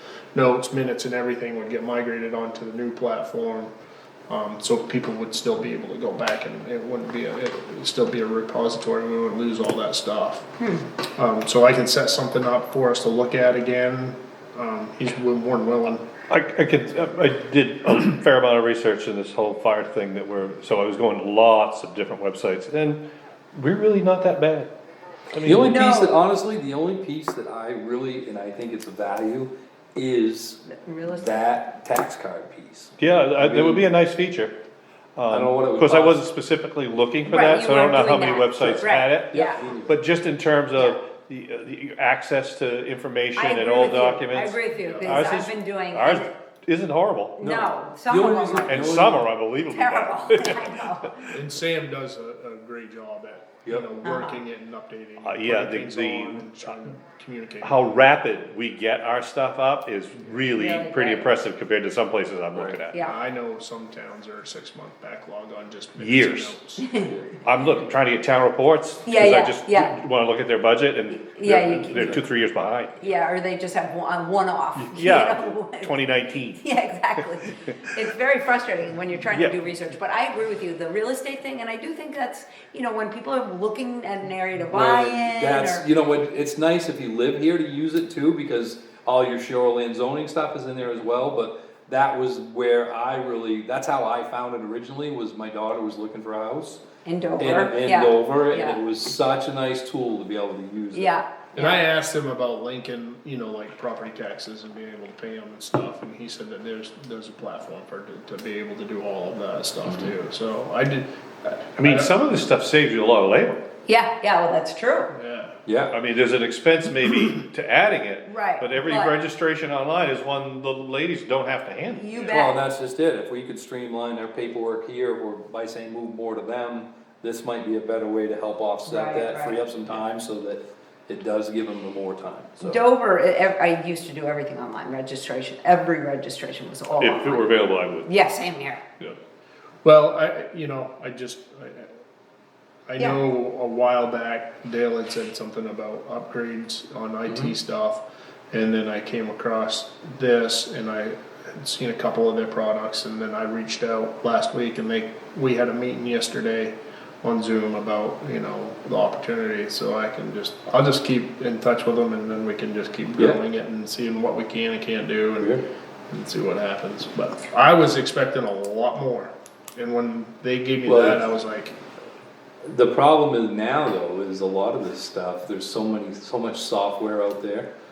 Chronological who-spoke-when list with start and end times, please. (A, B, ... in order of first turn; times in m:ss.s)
0:00.3-0:03.7 A
0:04.3-0:10.5 A
0:11.1-0:16.0 A
0:16.3-0:23.0 B
0:23.5-0:24.7 B
0:25.3-0:25.7 B
0:25.4-0:33.9 C
0:25.6-0:26.1 D
0:30.7-0:31.4 D
0:33.0-0:34.6 B
0:35.2-0:47.4 B
0:35.3-0:36.2 C
0:37.3-0:39.6 D
0:38.6-0:40.0 C
0:43.4-0:46.3 D
0:44.8-0:45.2 A
0:47.4-0:48.8 D
0:47.4-0:49.3 C
0:48.6-0:51.4 B
0:49.5-0:51.2 D
0:51.3-0:57.8 A
0:54.0-0:54.4 D
0:55.2-0:56.8 B
0:57.6-1:03.0 B
1:00.5-1:01.3 D
1:02.9-1:03.2 D
1:03.0-1:07.1 A
1:06.0-1:06.6 B
1:06.8-1:07.1 D
1:07.0-1:07.4 C
1:07.4-1:13.0 B
1:09.0-1:10.0 D
1:11.1-1:12.2 D
1:12.0-1:12.2 C
1:13.0-1:15.9 D
1:14.8-1:16.6 B
1:16.6-1:25.8 D
1:19.3-1:19.6 B
1:24.7-1:36.8 C
1:37.0-1:38.8 D
1:37.4-1:41.1 C
1:40.9-1:41.8 D
1:41.5-1:52.1 A
1:49.8-1:50.1 C
1:51.8-1:53.6 B
1:53.8-1:55.1 D
1:55.1-1:55.5 A
1:55.6-1:56.0 C
1:55.9-2:02.0 B
1:58.2-1:59.2 D
2:01.9-2:02.6 D
2:02.2-2:12.8 C
2:08.8-2:09.6 D
2:12.6-2:18.8 D
2:17.0-2:18.1 B
2:19.8-2:21.9 A
2:22.9-2:45.5 A
2:45.4-2:45.6 C
2:46.1-2:51.8 A
2:50.8-2:51.3 C
2:52.6-2:57.7 C